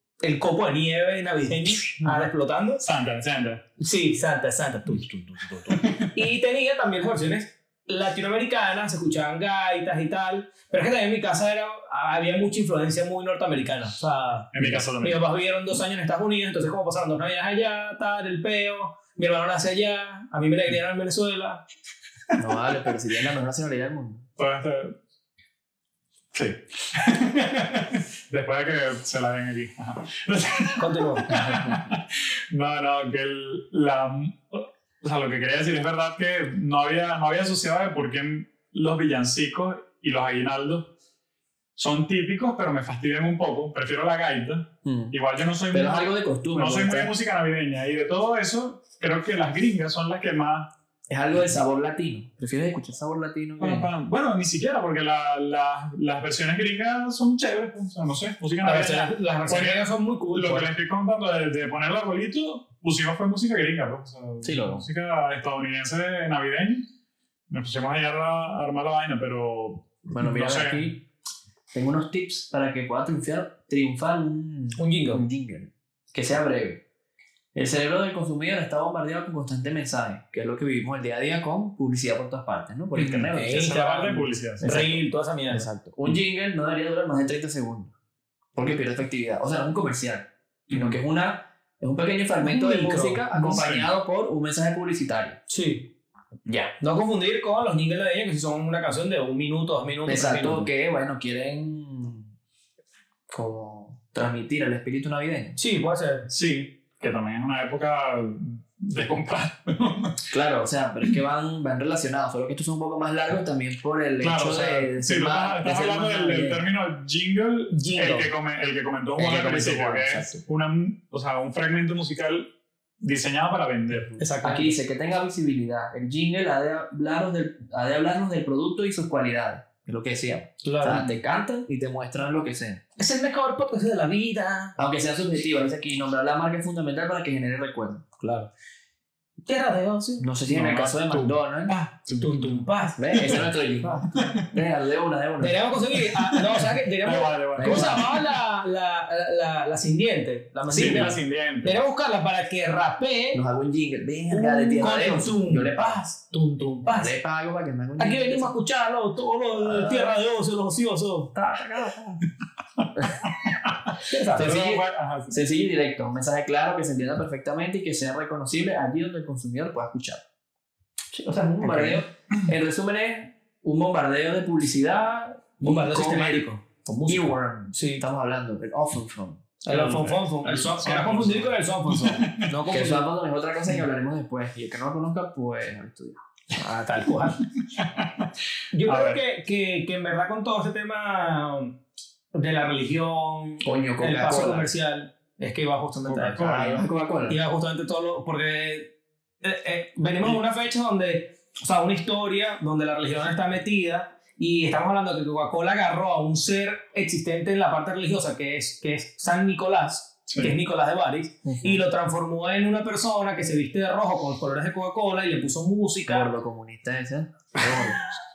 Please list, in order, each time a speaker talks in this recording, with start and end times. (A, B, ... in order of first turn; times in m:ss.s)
0:00.2-0:02.8 A
0:02.0-0:02.3 B
0:02.8-0:03.6 B
0:03.8-0:21.6 A
0:05.7-0:06.1 B
0:14.5-0:15.2 B
0:22.4-0:24.3 C
0:24.4-0:24.9 B
0:26.3-0:40.9 B
0:30.8-0:31.3 A
0:31.3-0:31.9 C
0:41.8-0:50.7 B
0:44.8-0:45.2 C
0:45.7-0:47.1 C
0:51.1-0:53.9 C
0:53.6-1:06.9 B
0:58.6-1:00.7 A
1:04.4-1:04.8 C
1:07.5-1:10.9 B
1:10.1-1:11.0 C
1:11.7-1:16.8 C
1:14.8-1:15.2 A
1:17.5-1:23.8 C
1:23.0-1:25.0 B
1:23.3-1:25.9 A
1:24.6-1:24.9 C
1:25.5-1:27.9 C
1:28.6-1:35.4 C
1:30.7-1:31.0 B
1:32.4-1:33.4 A
1:33.4-1:33.9 B
1:35.5-1:35.9 A
1:36.5-1:36.7 C
1:36.8-1:40.7 A
1:40.1-1:42.3 C
1:43.3-1:45.6 C
1:45.6-1:46.3 A
1:46.3-1:50.2 B
1:50.3-1:56.6 C
1:54.2-2:02.5 B
1:57.8-1:58.3 A
1:59.2-2:00.4 C
2:03.0-2:04.1 B
2:04.2-2:04.8 A
2:04.4-2:12.8 C
2:10.6-2:11.2 A
2:13.0-2:14.8 A
2:14.8-2:18.2 C
2:18.2-2:18.5 A
2:19.5-2:20.3 A
2:20.2-2:21.8 C
2:20.5-2:23.5 B
2:22.2-2:23.2 A
2:23.0-2:25.8 C
2:24.2-2:24.4 B
2:25.4-2:33.4 A
2:26.0-2:28.3 B
2:27.6-2:28.1 C
2:30.7-2:31.8 B
2:33.3-2:36.2 C
2:34.3-2:37.1 A
2:36.9-2:38.5 C
2:38.0-2:41.3 A
2:39.6-2:40.2 C
2:41.4-2:42.2 C
2:42.8-2:43.8 B
2:43.0-2:43.2 C
2:44.0-2:44.5 A
2:44.3-2:50.2 C
2:44.4-2:45.4 B
2:51.1-2:56.4 C
2:51.6-2:52.0 A
2:55.6-2:58.0 A
2:57.1-2:59.5 C
2:59.6-3:03.1 A
2:59.7-3:02.5 B
3:02.7-3:06.2 C
3:06.5-3:07.4 A
3:07.7-3:08.3 B
3:08.7-3:11.8 A
3:08.9-3:09.2 B
3:12.3-3:16.4 A
3:13.6-3:14.7 C
3:16.1-3:16.9 B
3:16.4-3:17.4 C
3:17.3-3:18.9 A
3:19.4-3:36.3 A
3:30.3-3:30.6 B
3:31.4-3:31.8 C
3:36.1-3:38.0 C